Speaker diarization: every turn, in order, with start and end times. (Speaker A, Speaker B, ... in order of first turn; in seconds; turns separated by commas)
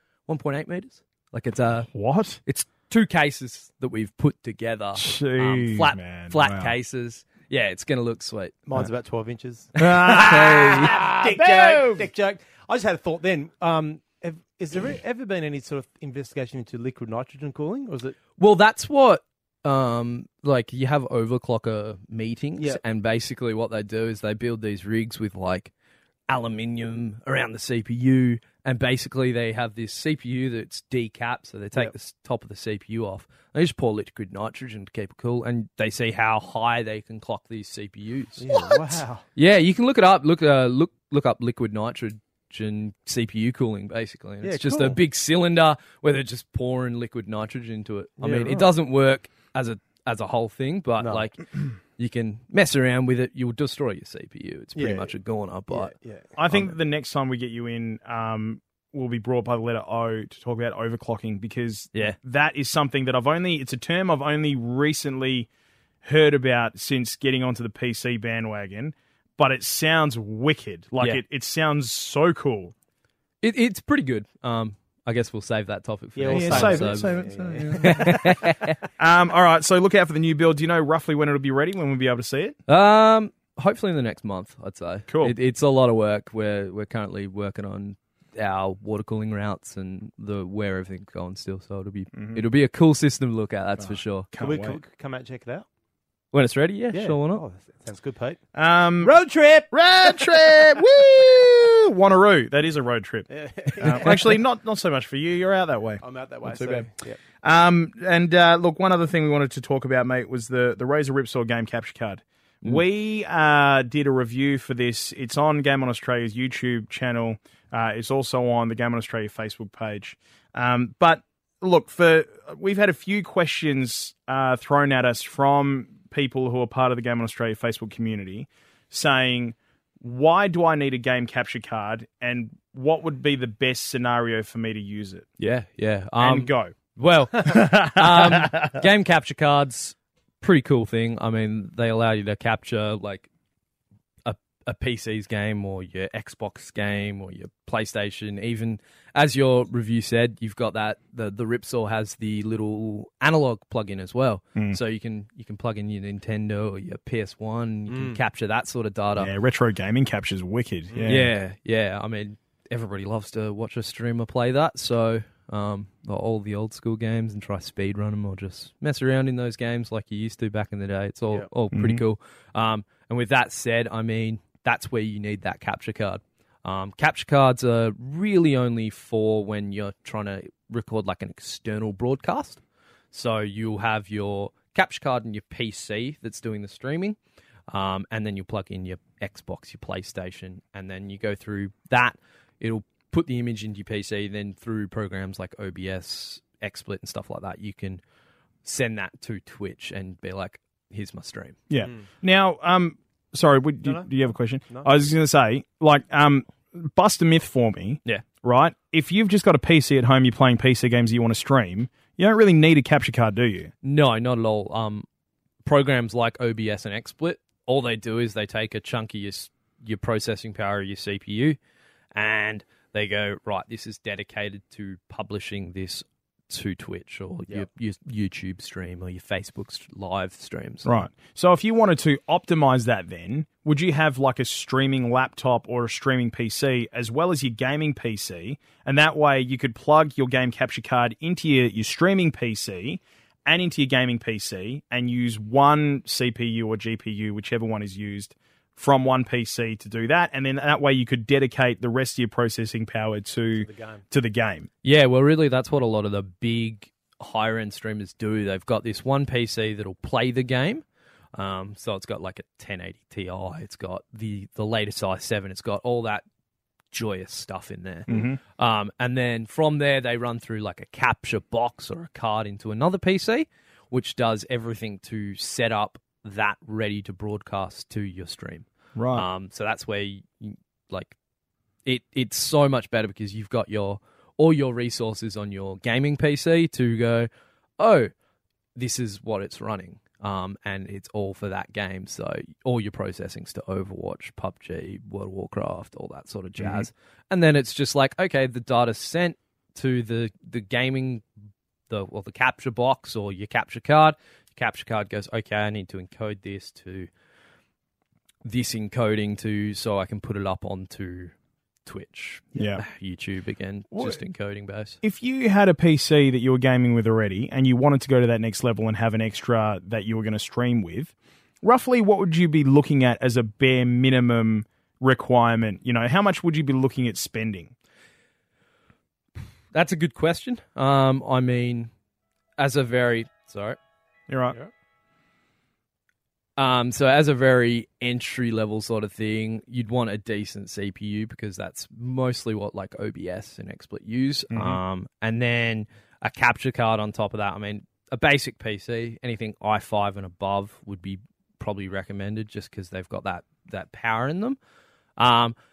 Speaker A: 0.3-1.9, Speaker B: 1.9-2.4, Speaker A: 2.5-8.7, Speaker B: 5.0-6.7, Speaker C: 8.7-18.1, Speaker A: 9.8-10.9, Speaker B: 9.8-12.1, Speaker A: 18.4-25.7, Speaker A: 26.3-38.5, Speaker C: 38.4-39.2, Speaker B: 38.5-39.0, Speaker A: 39.4-55.9, Speaker C: 44.4-45.0, Speaker C: 48.2-48.7, Speaker C: 51.0-51.2, Speaker C: 54.8-55.1, Speaker C: 55.7-56.7, Speaker B: 56.4-65.5, Speaker B: 66.0-72.7, Speaker A: 73.4-78.8, Speaker C: 76.2-78.3, Speaker B: 76.3-78.3, Speaker B: 79.0-82.6, Speaker A: 82.7-94.3, Speaker B: 85.1-85.3, Speaker B: 92.1-92.4, Speaker B: 93.8-94.8, Speaker C: 94.4-95.7, Speaker A: 96.3-97.4, Speaker C: 96.9-98.4, Speaker B: 98.5-99.1, Speaker C: 99.0-100.8, Speaker B: 99.7-106.9, Speaker C: 103.3-104.4, Speaker C: 106.0-107.2, Speaker B: 107.4-135.3, Speaker A: 135.4-143.3, Speaker B: 136.2-136.8, Speaker B: 137.4-138.7, Speaker A: 144.2-159.3, Speaker C: 157.9-158.2, Speaker B: 159.2-161.3, Speaker C: 160.9-161.2, Speaker A: 161.0-182.6, Speaker B: 171.7-172.0, Speaker A: 183.1-187.2, Speaker A: 187.7-198.0, Speaker A: 198.6-201.6, Speaker B: 201.7-213.7, Speaker C: 203.8-204.1, Speaker A: 213.8-215.1, Speaker A: 215.6-221.6, Speaker A: 222.1-230.9, Speaker B: 230.8-254.7, Speaker C: 253.5-254.0, Speaker A: 254.8-260.8, Speaker A: 261.4-266.2, Speaker A: 266.9-281.1, Speaker B: 268.1-268.4, Speaker B: 278.9-279.2, Speaker A: 281.9-288.1, Speaker A: 288.8-301.2, Speaker B: 296.6-296.9, Speaker A: 301.9-307.1, Speaker A: 308.4-311.3, Speaker A: 311.9-315.0, Speaker B: 312.5-312.8, Speaker B: 313.9-314.2, Speaker B: 315.0-327.7, Speaker A: 329.7-331.9, Speaker A: 332.6-333.8, Speaker B: 334.3-334.6, Speaker A: 336.6-354.6, Speaker B: 344.5-344.8, Speaker A: 355.2-355.5